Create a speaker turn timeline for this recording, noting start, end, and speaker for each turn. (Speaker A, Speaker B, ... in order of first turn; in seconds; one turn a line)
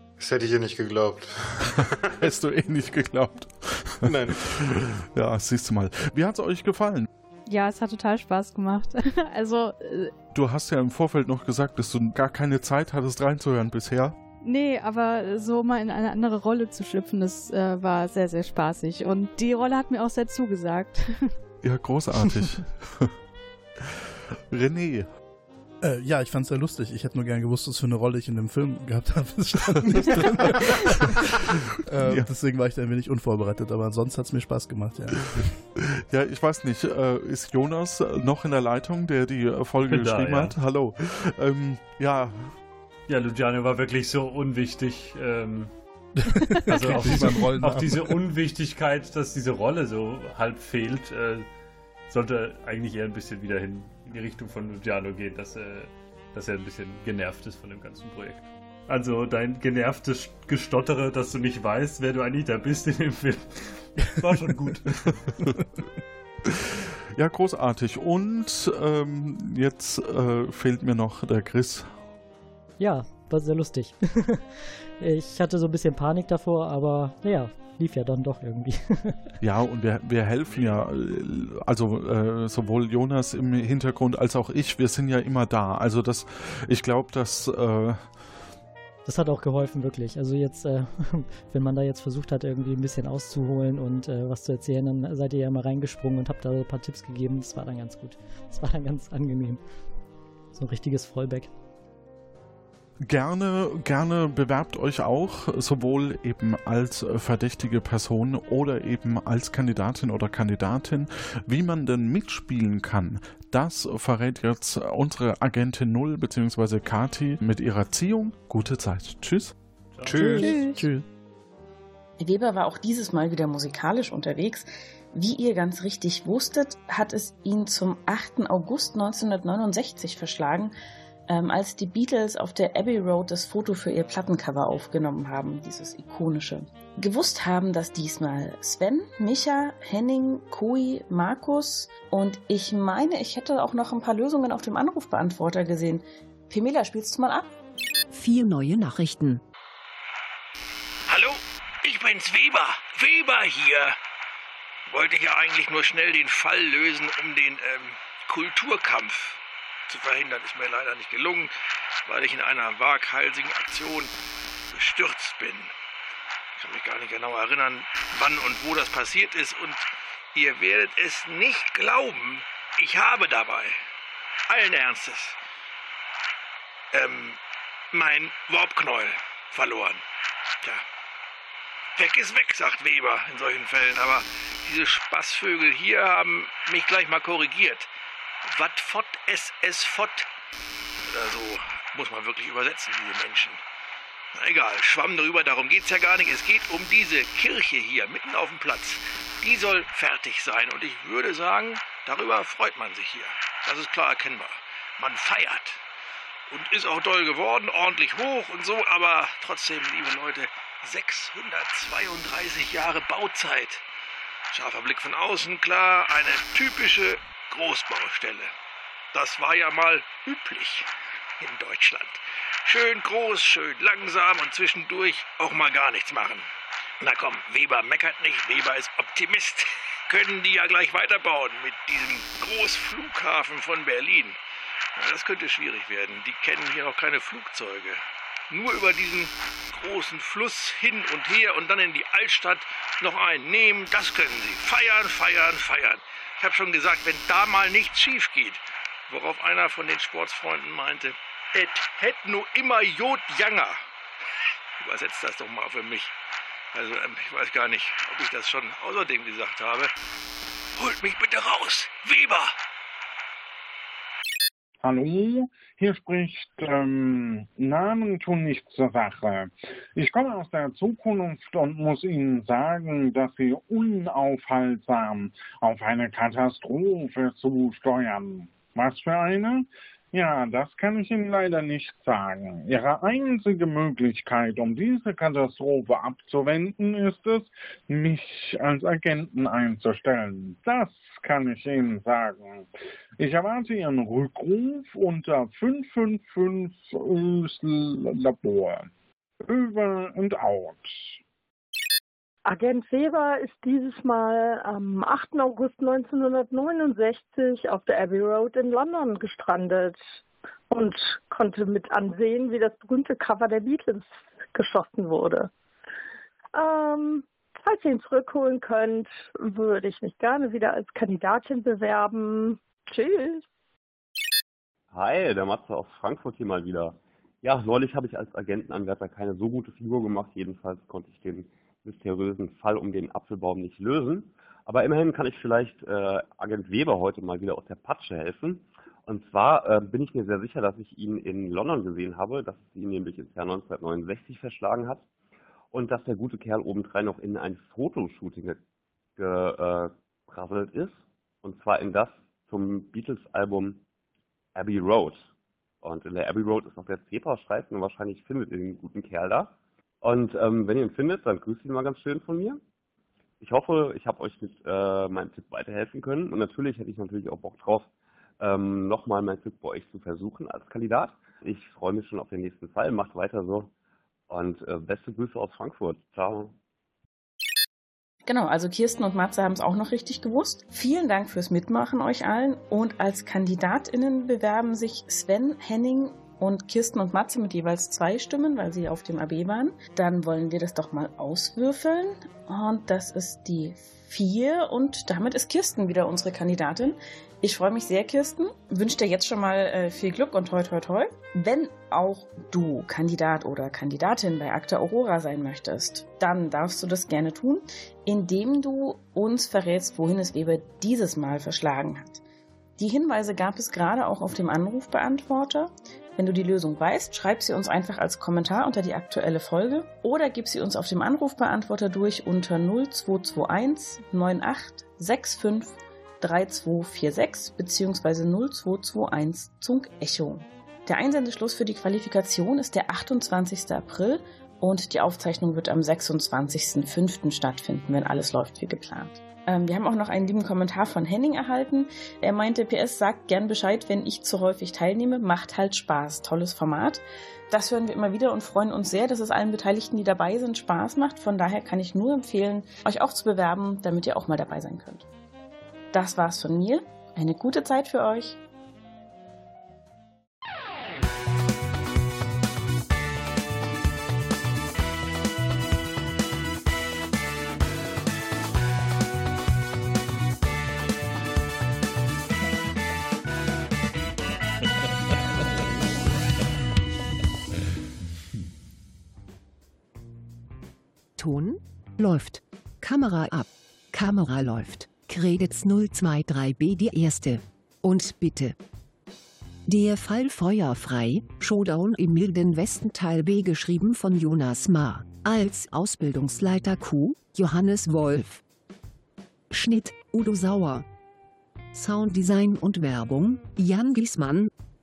Speaker A: 0.2-2.1
Speaker B: 2.2-7.1
Speaker A: 4.0-4.5
Speaker C: 7.5-10.1
Speaker B: 10.3-14.1
Speaker C: 14.4-21.3
Speaker B: 21.6-23.1
Speaker B: 24.5-25.1
Speaker D: 25.8-35.5
Speaker B: 29.8-32.3
Speaker B: 35.2-42.5
Speaker E: 39.8-40.5
Speaker E: 43.1-45.7
Speaker D: 46.2-48.2
Speaker E: 46.6-51.5
Speaker E: 52.1-65.0
Speaker B: 66.5-71.9
Speaker F: 72.8-74.5
Speaker F: 75.0-79.3
Speaker B: 79.4-88.0
Speaker E: 80.5-80.8
Speaker F: 89.0-99.6
Speaker F: 100.5-101.5
Speaker B: 103.0-119.5
Speaker E: 119.9-120.4
Speaker A: 120.0-120.8
Speaker D: 120.1-121.0
Speaker G: 122.2-130.7
Speaker G: 131.3-147.5
Speaker H: 148.1-149.4
Speaker I: 151.1-154.0
Speaker I: 154.9-161.5
Speaker I: 162.0-164.1
Speaker I: 164.7-165.7
Speaker I: 166.6-173.8
Speaker I: 174.5-175.4
Speaker I: 176.9-177.4
Speaker I: 177.9-180.0
Speaker I: 181.9-187.9
Speaker I: 188.5-190.3
Speaker I: 191.1-193.6
Speaker I: 194.3-205.8
Speaker I: 206.5-213.8
Speaker I: 214.5-218.5
Speaker I: 219.1-220.9
Speaker I: 221.4-226.5
Speaker I: 227.0-234.4
Speaker I: 234.9-253.8
Speaker I: 254.8-256.1
Speaker I: 256.7-259.9
Speaker I: 260.8-262.5
Speaker J: 264.8-298.9
Speaker J: 299.5-301.2
Speaker K: 302.4-310.0
Speaker K: 310.7-315.5
Speaker K: 316.5-323.4
Speaker L: 324.9-345.0
Speaker L: 345.7-348.6
Speaker L: 349.2-353.8
Speaker L: 354.5-355.3
Speaker L: 355.8-362.6
Speaker L: 363.4-367.9
Speaker L: 368.4-373.7
Speaker L: 374.3-376.5
Speaker G: 378.2-412.2
Speaker G: 412.8-455.1
Speaker G: 455.9-458.4
Speaker H: 481.2-488.6
Speaker H: 489.7-498.4
Speaker H: 499.5-500.9
Speaker H: 501.7-504.5